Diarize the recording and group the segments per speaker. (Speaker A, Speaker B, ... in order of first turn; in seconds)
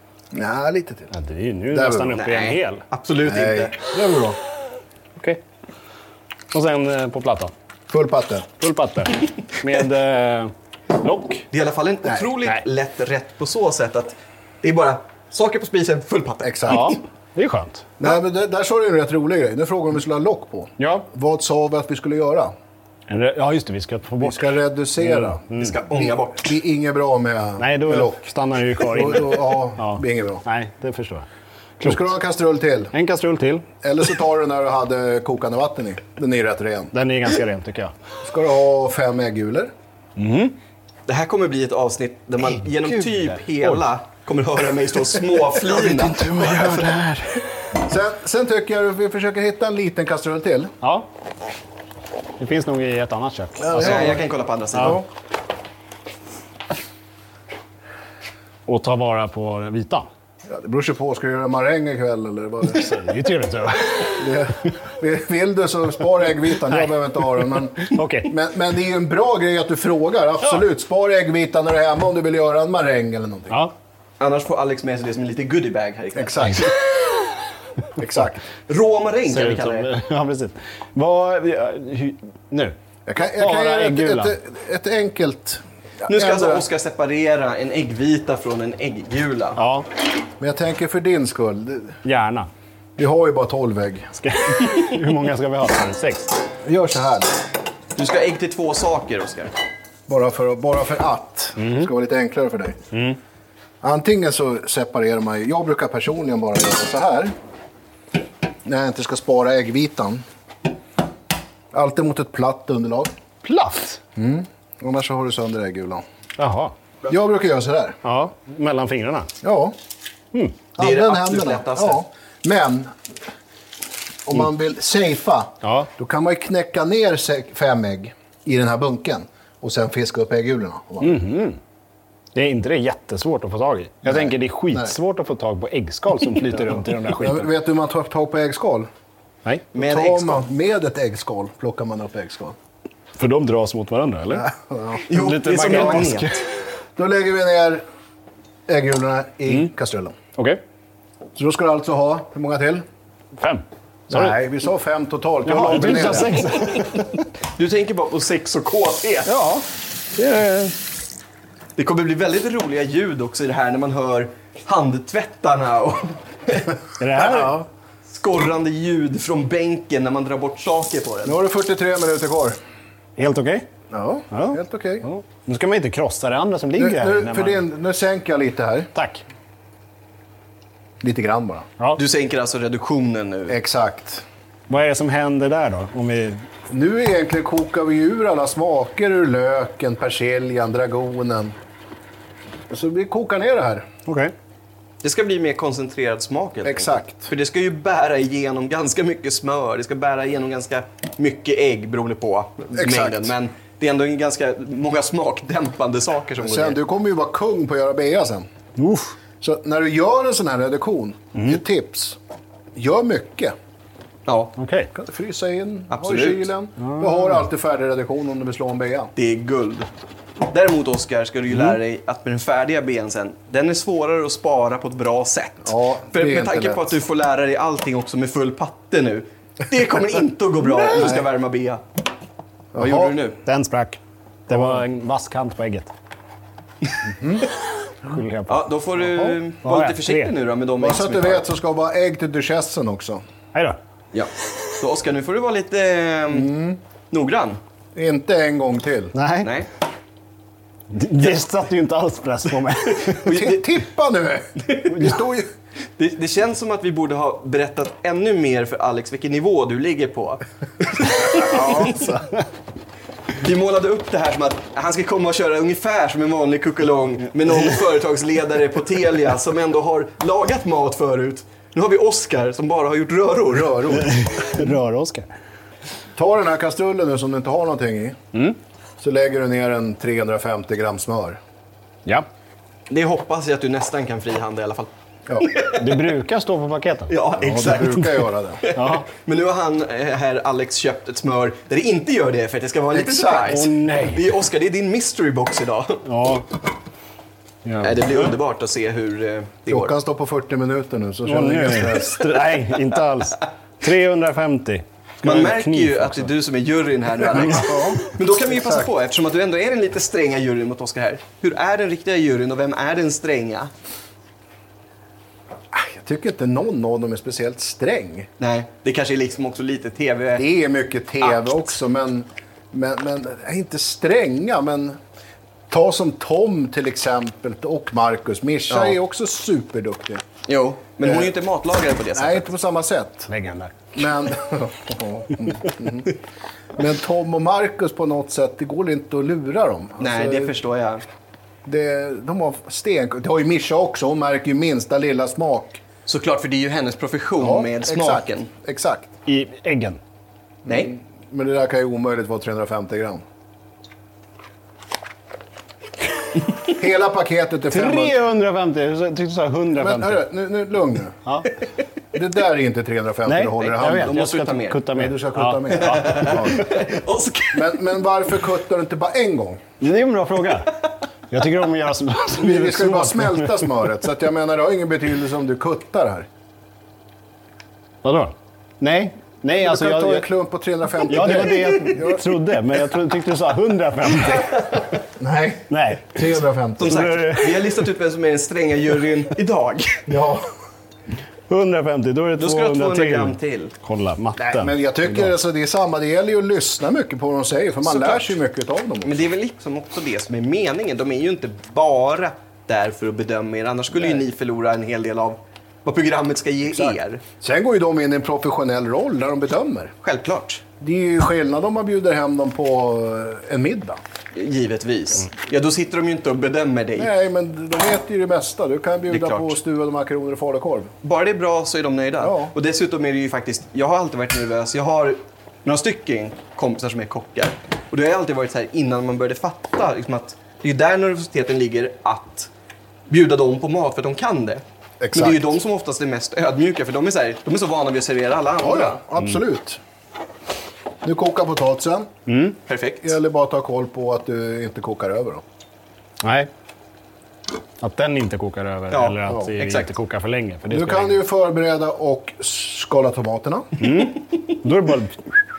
Speaker A: 0.3-1.1, 1.7-2.2, 3.2-4.4, 7.9-8.5, 16.4-17.0, 18.0-22.5, 24.2-28.2, 28.9-30.4, 31.8-32.9, 33.8-36.9, 38.2-39.7, 45.7-47.0, 47.8-50.7, 53.6-54.2, 54.8-55.1, 60.5-63.0, 64.2-73.6, 76.2-76.7, 78.0-78.4, 83.1-86.7, 90.4-92.0, 93.0-94.1, 96.7-97.4, 100.1-102.8, 103.8-107.3, 108.7-110.2, 111.7-113.1, 114.2-116.0, 117.1-118.0, 119.4-119.8, 120.8-123.0, 124.3-131.2, 134.1-134.9, 136.7-138.9, 139.8-142.6, 144.3-145.0, 147.0-147.8, 148.7-150.2, 151.3-152.8, 154.1-156.5, 167.2-167.7, 171.2-172.6, 173.9-175.1, 176.8-178.9, 181.0-181.7, 183.5-184.2, 186.7-191.6, 192.7-193.9, 196.6-197.3, 202.7-203.3, 206.4-208.5, 209.4-212.2, 212.8-213.6, 214.9-219.1, 225.7-226.9, 230.9-231.2, 232.7-233.1, 234.5-234.8, 237.1-237.5, 240.8-243.2, 246.3-246.8, 247.9-249.1, 253.3-255.5, 261.4-262.0, 273.5-274.1, 276.2-278.2, 279.0-281.4, 287.4-288.6, 292.9-293.6, 299.7-302.3, 307.2-308.9, 315.7-318.3, 320.4-325.0, 325.7-330.2, 331.0-331.3, 332.1-333.3, 333.9-336.1, 336.8-340.5, 341.6-345.8, 347.4-349.1, 350.6-353.2, 356.7-358.2, 359.8-361.2, 362.1-364.2, 364.9-366.7, 367.5-369.6, 372.4-376.3, 379.5-382.3, 385.2-387.1, 390.1-390.5, 394.4-399.3, 406.7-409.9, 410.8-414.0, 417.0-420.9, 422.2-422.5, 435.0-435.5, 438.6-439.8, 441.0-442.1, 443.0-445.4, 450.7-453.7
Speaker B: 1.1-2.8, 6.5-7.5, 8.6-11.5, 16.7-17.9, 20.8-21.1, 23.1-25.8, 27.6-31.3, 31.8-32.1, 32.9-33.7, 36.9-37.9, 40.2-40.6, 42.5-43.8, 45.9-47.5, 50.8-51.1, 52.4-54.2, 54.8-55.0, 58.7-60.1, 62.6-64.3, 67.8-68.3, 79.3-82.8, 83.4-84.4, 89.6-89.9, 92.0-92.5, 94.2-96.4, 101.6-101.9, 102.9-103.2, 113.4-114.0, 116.4-116.7, 118.0-119.3, 125.6-125.9, 131.0-131.6, 132.3-137.5, 143.2-144.5, 145.1-146.4, 153.4-154.4, 155.4-157.1, 159.3-160.8, 167.0-167.6, 173.2-173.7, 174.3-177.6, 178.9-179.2, 184.7-186.5, 194.1-194.3, 208.8-209.2, 214.6-214.9, 216.8-217.4, 233.4-235.9, 238.0-240.3, 249.1-249.5, 250.9-253.3, 262.0-262.4, 273.9-275.3, 285.7-287.9, 288.7-289.1, 293.5-294.2, 296.0-296.5, 297.6-298.3, 301.3-306.3, 333.3-333.8, 349.3-350.0, 357.7-360.2, 361.3-361.5, 363.3-366.6, 369.8-373.7, 378.0-380.3, 381.1-384.8, 385.7-386.2, 386.8-387.8, 391.5-395.3, 442.3-442.6, 446.2-446.5, 447.8-451.2, 453.8-455.3
Speaker C: 2.2-3.8, 11.5-17.0, 25.6-26.5, 41.1-46.8, 53.7-55.0, 74.2-76.8, 78.7-79.9, 86.1-89.6, 98.0-99.5, 120.8-122.0, 139.7-140.4, 145.1-146.3, 157.6-159.3, 161.8-166.7, 168.1-171.4, 182.0-183.6, 195.0-206.8, 214.3-214.5, 215.9-216.5, 219.2-219.9, 220.4-231.8, 232.8-233.4, 238.5-241.4, 244.1-246.6, 247.1-247.6, 249.4-249.7, 253.0-253.6, 254.7-255.2, 256.0-262.2, 263.4-274.1, 282.9-286.0, 287.1-296.0, 297.8-299.9, 305.2-313.7, 318.4-320.5, 321.3-321.5, 328.7-329.0, 330.5-332.5, 340.0-341.0, 346.1-348.5, 350.7-350.9, 363.6-364.8, 365.7-367.8, 386.8-390.1, 392.4-393.7, 397.9-398.4, 399.0-407.2, 410.0-410.6, 414.4-417.1, 419.1-419.6, 421.0-432.5, 433.1-439.0, 442.7-443.2, 448.9-449.9